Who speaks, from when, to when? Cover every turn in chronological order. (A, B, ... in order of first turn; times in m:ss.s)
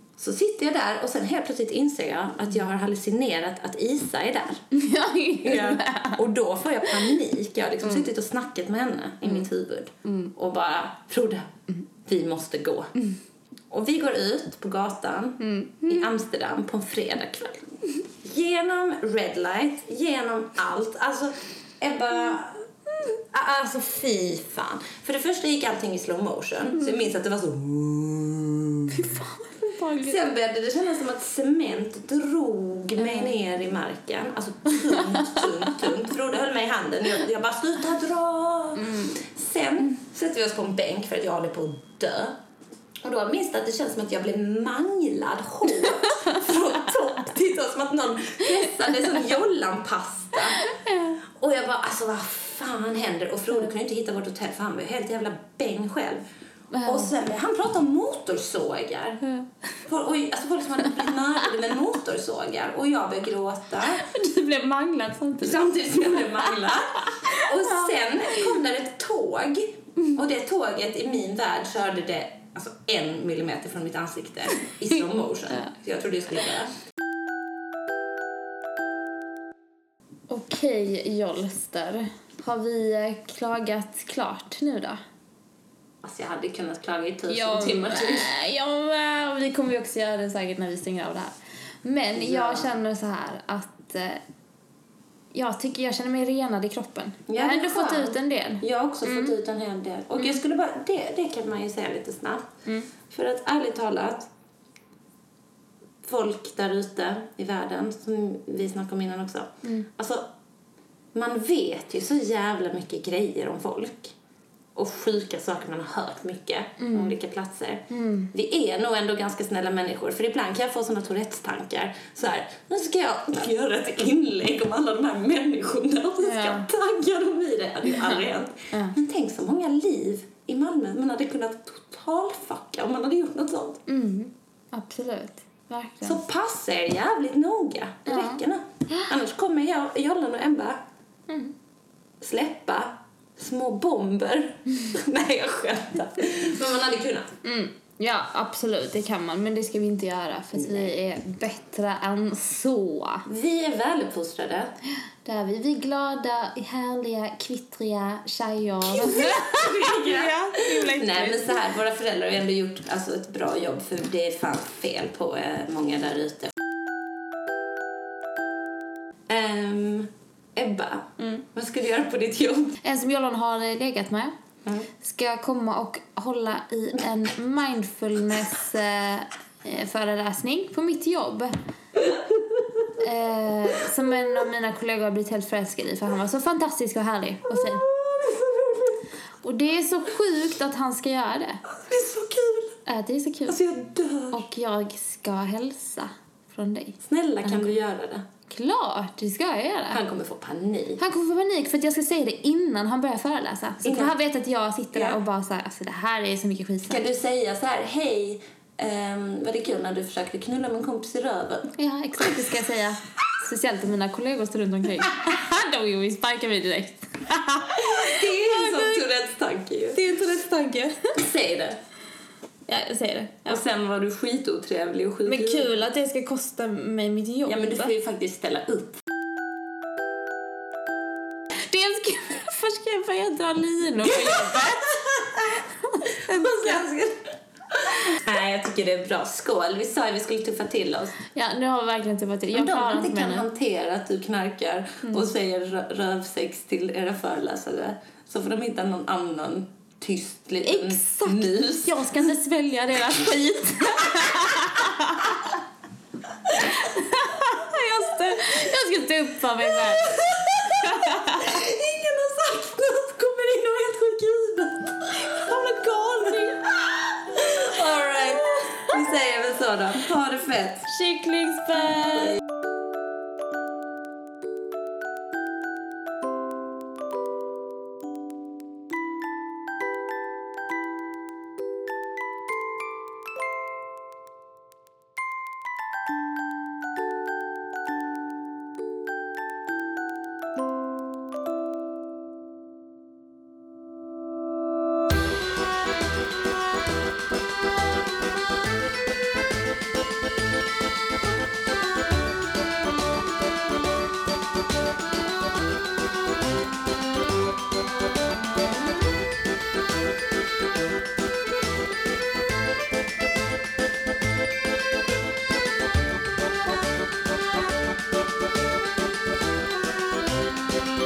0:00.2-0:04.6 A
0:04.7-0:06.2 B
0:05.4-0:12.9 A
0:10.1-0:10.3 B
0:13.7-0:29.0 A
0:15.4-0:16.0 B
0:28.9-0:30.2 B
0:30.0-0:42.4 A
0:33.0-0:33.3 B
0:38.8-0:39.2 B
0:43.0-0:50.7 A
0:50.6-0:51.2 B
0:51.3-0:56.2 A
0:56.7-0:57.1 B
0:56.8-0:59.2 A
0:59.8-1:04.1 A
1:03.9-1:05.6 B
1:05.4-1:16.7 A
1:06.1-1:06.6 B
1:07.2-1:07.9 B
1:20.3-1:25.0 B
1:26.0-1:28.3 A
1:27.3-1:34.2 B
1:32.2-1:32.8 A
1:35.3-1:39.4 B
1:37.3-1:42.5 A
1:43.1-1:44.3 A
1:46.0-1:50.3 A
1:51.1-1:54.2 A
1:54.8-2:13.8 A
1:56.8-1:57.2 B
1:57.9-1:58.3 B
2:06.2-2:06.7 B
2:07.9-2:08.2 B
2:13.9-2:16.2 B
2:16.0-2:20.8 A
2:18.1-2:18.4 B
2:21.3-2:21.5 B
2:22.2-2:27.3 A
2:27.4-2:33.3 B
2:30.6-2:30.9 A
2:33.3-2:34.7 A
2:35.2-2:41.6 B
2:38.8-2:46.6 A
2:49.3-2:52.8 A
2:52.8-2:54.3 B
2:55.0-3:01.5 B
3:02.1-3:02.6 A
3:03.0-3:07.8 B
3:07.5-3:09.1 A
3:09.4-3:11.6 B
3:11.7-3:12.8 A
3:12.9-3:13.6 B
3:13.5-3:14.4 A
3:14.3-3:17.7 B
3:17.0-3:18.2 A
3:18.5-3:20.0 B
3:19.9-3:21.0 A
3:21.0-3:27.0 B
3:23.8-3:24.2 A
3:24.9-3:25.2 A
3:26.9-3:31.8 A
3:31.8-3:39.0 B
3:37.8-3:40.0 A
3:39.9-3:41.2 B
3:41.2-3:41.8 A
3:42.7-3:43.6 B
3:43.5-3:45.8 A
3:45.2-3:47.9 B
3:47.5-3:49.0 A
3:51.6-3:56.9 B
3:54.1-4:01.2 A
4:01.3-4:03.5 B
4:02.5-4:12.0 A
4:10.6-4:15.5 B
4:14.2-4:14.4 A
4:16.5-4:21.5 B
4:19.8-4:30.9 A
4:26.2-4:26.6 B
4:27.8-4:28.8 B
4:30.9-4:32.4 B